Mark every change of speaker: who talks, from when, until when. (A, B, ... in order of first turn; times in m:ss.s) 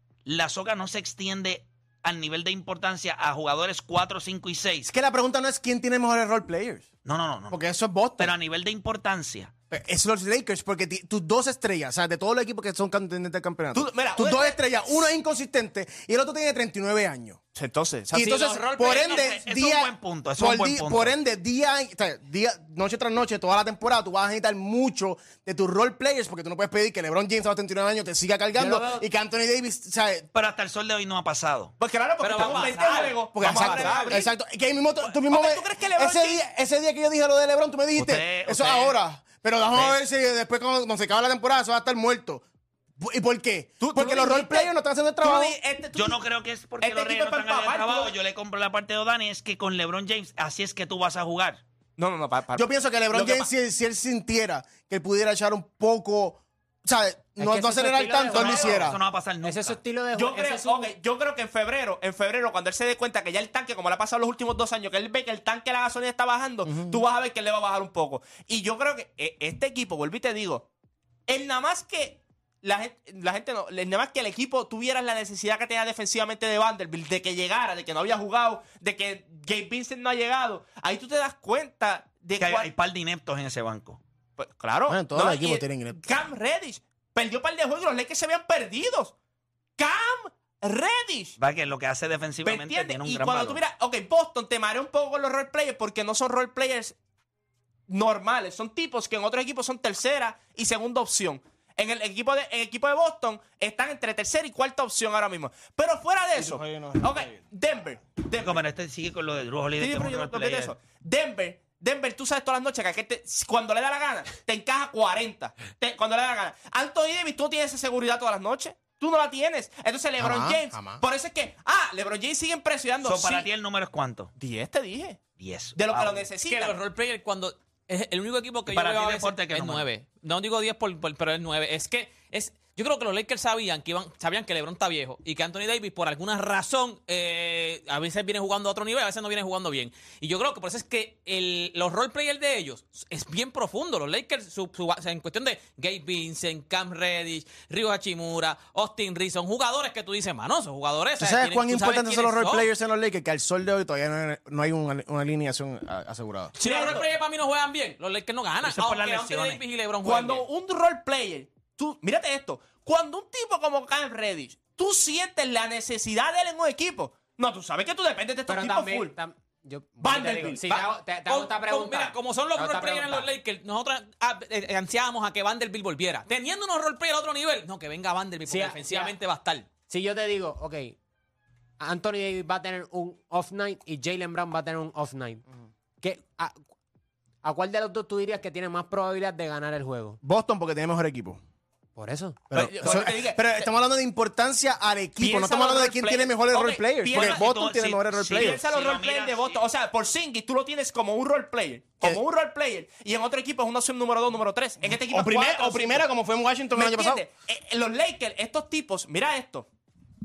0:00.2-0:04.9 A
0:04.8-0:06.9 B
0:07.0-0:07.6 A
0:07.5-0:08.3 B
0:08.2-0:09.5 A
0:09.7-0:17.4 B
0:13.7-0:14.6 C
0:17.5-0:18.4 C
0:18.1-0:30.3 B
0:18.2-0:21.1 A
0:28.6-0:29.0 D
0:30.3-0:31.7 A
0:31.8-0:34.3 C
0:32.2-0:34.2 E
0:33.3-0:42.4 B
0:35.2-0:36.4 C
0:38.0-0:39.0 A
0:39.7-0:40.0 A
0:43.0-0:45.6 B
0:43.8-0:44.7 C
0:45.2-0:46.2 C
0:45.9-0:51.6 A
0:46.8-0:48.1 C
0:52.0-0:53.5 C
0:52.5-0:59.0 B
0:57.4-0:58.8 D
0:58.3-0:59.8 A
0:59.4-1:00.9 D
1:00.1-1:10.7 C
1:06.6-1:07.0 B
1:11.3-1:22.7 C
1:22.4-1:24.0 A
1:24.4-1:29.1 C
1:24.9-1:26.2 B
1:29.8-1:31.4 C
1:31.4-1:33.6 A
1:32.4-1:37.0 C
1:37.9-1:48.6 C
1:46.3-1:47.4 B
1:48.4-1:50.7 A
1:49.8-2:03.5 C
2:00.2-2:01.0 B
2:03.0-2:04.3 A
2:04.4-2:05.2 C
2:05.4-2:06.2 A
2:05.8-2:06.8 C
2:06.4-2:32.7 E
2:08.7-2:09.9 A
2:31.2-2:36.6 B
2:36.6-2:40.4 E
2:36.6-2:37.1 C
2:38.6-2:39.6 A
2:40.0-2:49.1 C
2:48.5-2:53.3 D
2:50.0-2:50.8 C
2:51.2-2:59.7 E
2:58.5-2:59.1 D
2:59.9-3:01.0 D
3:01.8-3:05.4 D
3:06.0-3:06.6 D
3:07.4-3:10.2 D
3:10.2-3:11.4 B
3:12.0-3:12.4 D
3:12.5-3:18.6 B
3:12.5-3:13.7 C
3:15.2-3:17.5 C
3:17.1-3:19.6 A
3:18.3-3:26.0 C
3:25.0-3:27.2 B
3:26.7-3:29.7 C